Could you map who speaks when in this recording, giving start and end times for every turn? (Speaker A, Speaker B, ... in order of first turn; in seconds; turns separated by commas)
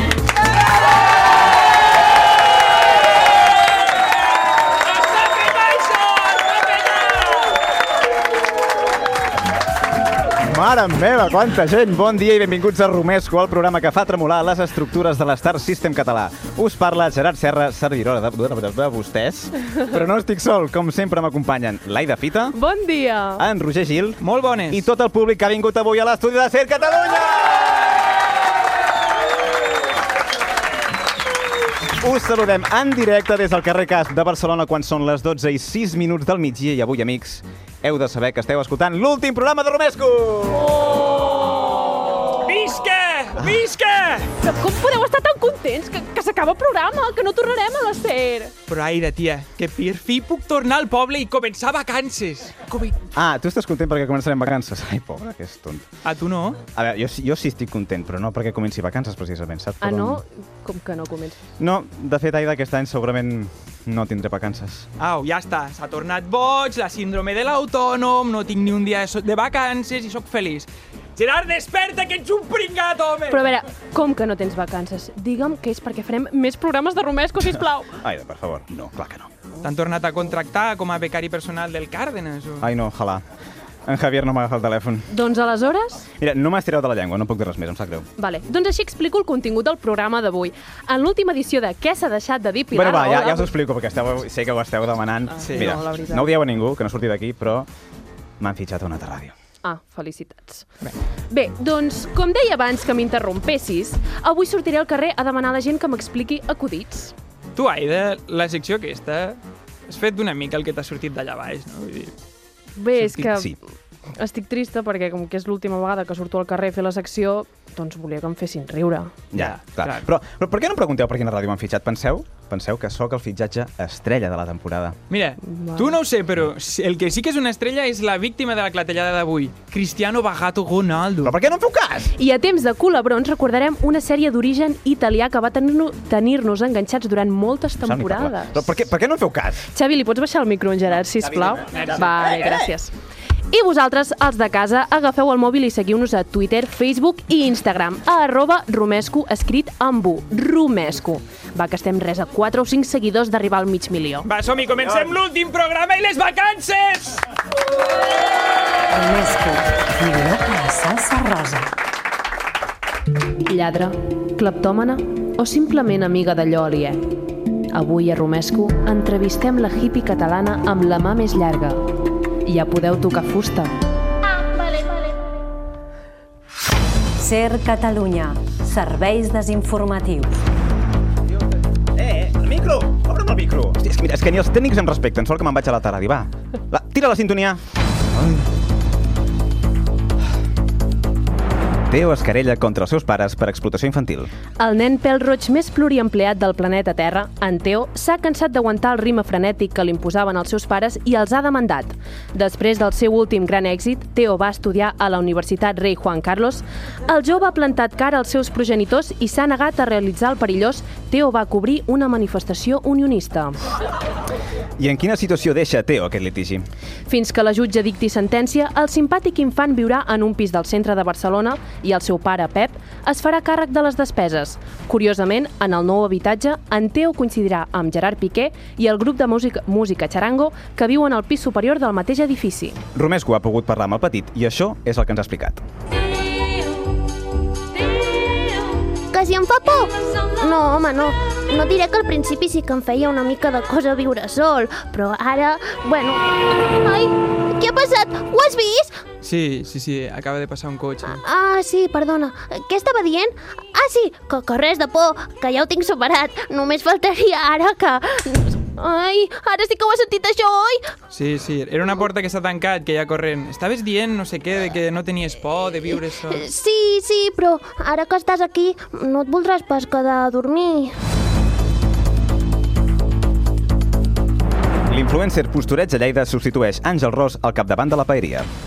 Speaker A: 4.8-7.6, Speaker B: 10.4-22.6, Speaker C: 22.5-23.4, Speaker B: 23.4-27.7, Speaker A: 24.2-24.8, Speaker B: 32.0-40.8, Speaker A: 42.4-44.3, Speaker C: 44.4-48.5, Speaker A: 48.7-53.0, Speaker B: 53.1-55.8, Speaker A: 56.0-56.6, Speaker B: 56.8-60.2, Speaker C: 59.8-61.4, Speaker B: 61.6-64.9, Speaker A: 65.0-73.4, Speaker C: 73.3-77.9, Speaker B: 77.5-79.3, Speaker A: 79.6-82.7, Speaker B: 82.6-83.2, Speaker B: 83.8-85.1, Speaker C: 85.1-86.0, Speaker B: 86.2-88.1, Speaker C: 88.2-93.5, Speaker B: 92.7-97.7, Speaker A: 95.4-95.8, Speaker C: 95.5-96.3, Speaker B: 98.4-99.3, Speaker C: 99.6-100.7, Speaker C: 101.3-107.1, Speaker A: 107.5-112.1, Speaker C: 112.8-113.5, Speaker B: 113.2-113.5, Speaker C: 114.2-119.2, Speaker B: 119.3-125.0, Speaker A: 119.3-120.1, Speaker A: 125.1-131.3, Speaker C: 125.4-125.9, Speaker B: 131.2-132.1, Speaker C: 132.2-138.6, Speaker B: 137.8-139.7, Speaker C: 139.7-142.9, Speaker B: 141.2-142.7, Speaker A: 141.7-142.0, Speaker C: 143.5-154.3, Speaker A: 154.2-157.2, Speaker D: 158.9-161.7, Speaker C: 163.4-167.0, Speaker C: 167.7-171.8, Speaker C: 172.4-173.7, Speaker D: 177.2-180.3, Speaker B: 181.9-187.6, Speaker B: 188.1-188.4, Speaker B: 191.9-194.3, Speaker C: 194.6-213.6, Speaker B: 214.8-216.6, Speaker C: 217.1-232.8, Speaker B: 232.9-235.6, Speaker E: 239.1-248.9, Speaker A: 249.2-251.2, Speaker E: 251.3-260.8, Speaker C: 258.9-260.1, Speaker A: 261.1-266.4, Speaker E: 266.4-270.9, Speaker B: 274.9-278.5